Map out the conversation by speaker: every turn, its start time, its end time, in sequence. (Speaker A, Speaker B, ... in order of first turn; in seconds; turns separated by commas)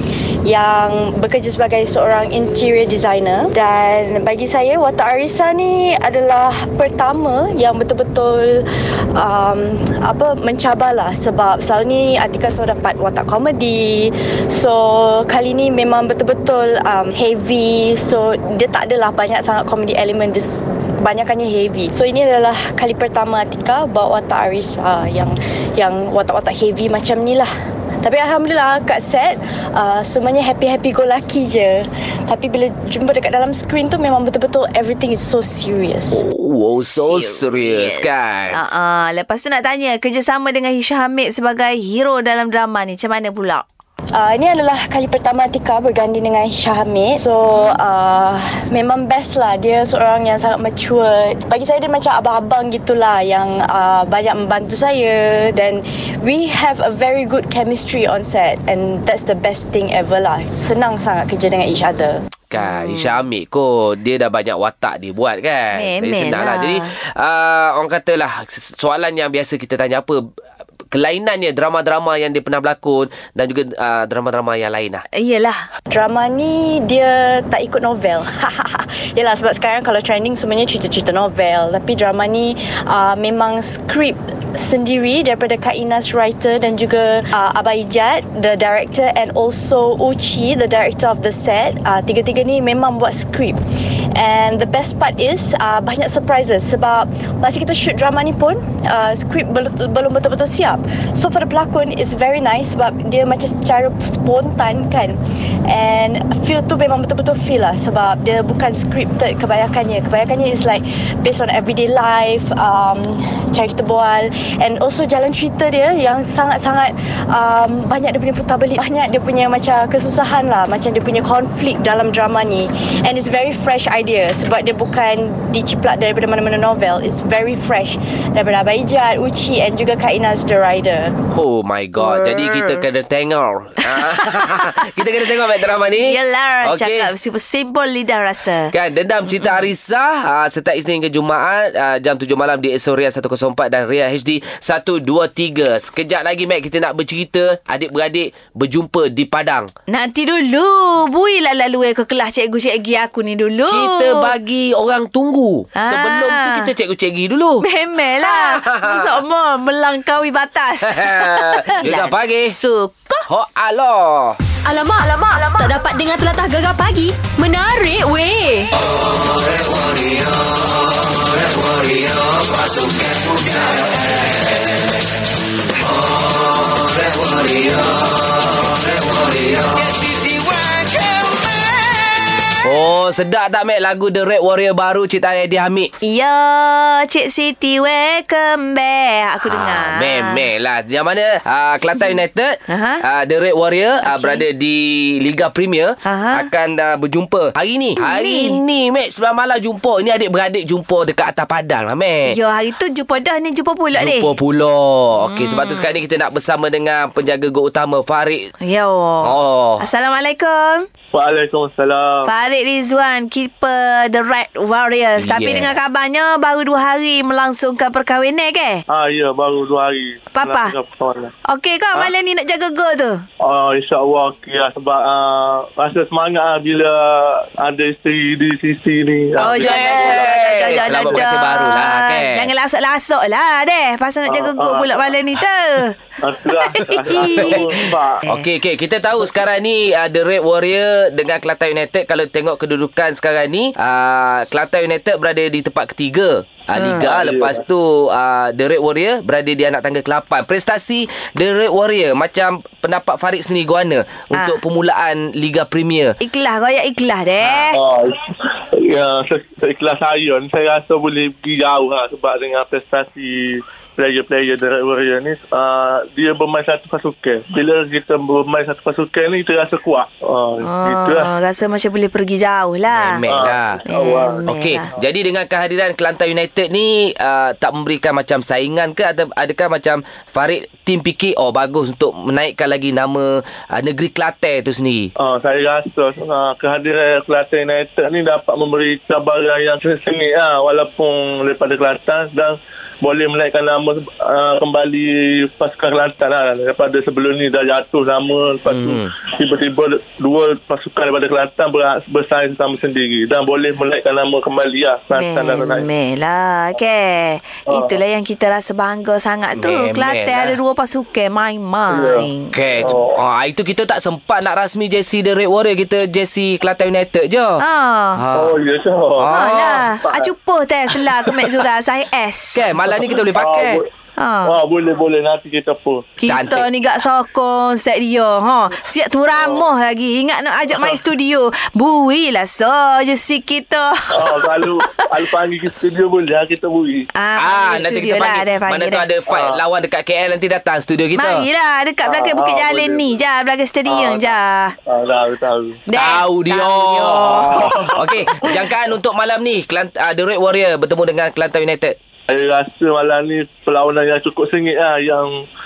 Speaker A: 0.5-27.5, Speaker A: 28.0-36.2, Speaker B: 36.1-38.6, Speaker C: 36.8-43.6, Speaker A: 44.1-62.2, Speaker C: 47.5-47.8, Speaker B: 62.5-70.3, Speaker C: 62.6-63.2, Speaker C: 65.7-66.9, Speaker B: 70.9-75.0, Speaker C: 75.1-75.6, Speaker A: 75.9-93.6, Speaker A: 94.1-131.2, Speaker B: 131.3-137.1, Speaker C: 132.0-132.8, Speaker C: 133.8-134.7, Speaker C: 136.0-138.7, Speaker B: 138.7-149.7, Speaker C: 149.9-154.3, Speaker B: 153.7-157.6, Speaker C: 155.8-156.7, Speaker C: 157.6-163.2, Speaker B: 158.2-159.2, Speaker B: 160.8-162.6, Speaker B: 163.3-164.4, Speaker D: 164.6-168.7, Speaker B: 168.8-175.0, Speaker B: 175.6-181.4, Speaker B: 182.6-185.9, Speaker C: 186.0-190.4, Speaker B: 189.4-202.4, Speaker C: 192.7-193.0, Speaker C: 194.0-194.4, Speaker C: 196.0-196.5, Speaker C: 198.0-198.6, Speaker C: 202.3-204.3, Speaker B: 203.9-208.5, Speaker C: 205.3-205.9, Speaker C: 208.6-210.8, Speaker B: 209.2-209.8, Speaker E: 211.1-212.3, Speaker C: 212.2-218.8, Speaker B: 215.2-215.7, Speaker E: 218.9-221.3, Speaker C: 220.3-220.7, Speaker C: 221.5-223.2, Speaker E: 223.4-231.2, Speaker C: 229.4-235.9, Speaker B: 229.5-232.5, Speaker E: 234.3-235.1, Speaker E: 236.2-238.2, Speaker C: 236.5-238.5, Speaker B: 237.2-237.7, Speaker B: 238.3-256.2, Speaker C: 246.8-247.1, Speaker E: 247.0-247.6, Speaker C: 254.3-254.6, Speaker C: 256.2-257.8, Speaker B: 257.4-257.7, Speaker E: 257.7-271.3, Speaker C: 270.6-273.2, Speaker B: 272.9-273.8, Speaker E: 273.2-274.4, Speaker C: 273.9-274.9, Speaker B: 274.4-285.1, Speaker E: 285.2-305.9, Speaker B: 298.7-299.1, Speaker C: 305.1-312.5, Speaker E: 307.7-308.0, Speaker B: 309.5-310.6, Speaker E: 311.9-312.3, Speaker B: 312.5-317.6, Speaker E: 312.8-313.2, Speaker C: 317.6-318.2, Speaker B: 318.1-318.6, Speaker E: 318.3-319.4, Speaker B: 319.1-319.9, Speaker C: 319.3-322.6, Speaker E: 320.0-320.3, Speaker B: 322.5-323.8, Speaker E: 322.9-323.9, Speaker C: 324.2-324.5, Speaker E: 324.4-326.1, Speaker C: 326.2-334.5, Speaker B: 326.3-326.7, Speaker E: 329.4-329.6, Speaker E: 334.1-337.1, Speaker C: 337.1-339.0, Speaker B: 337.4-341.4, Speaker E: 339.3-339.6, Speaker C: 341.1-344.7, Speaker E: 342.0-343.2, Speaker E: 343.9-344.3, Speaker E: 344.9-345.8, Speaker C: 345.9-347.7, Speaker B: 345.9-352.0, Speaker E: 347.3-348.6, Speaker E: 352.3-355.4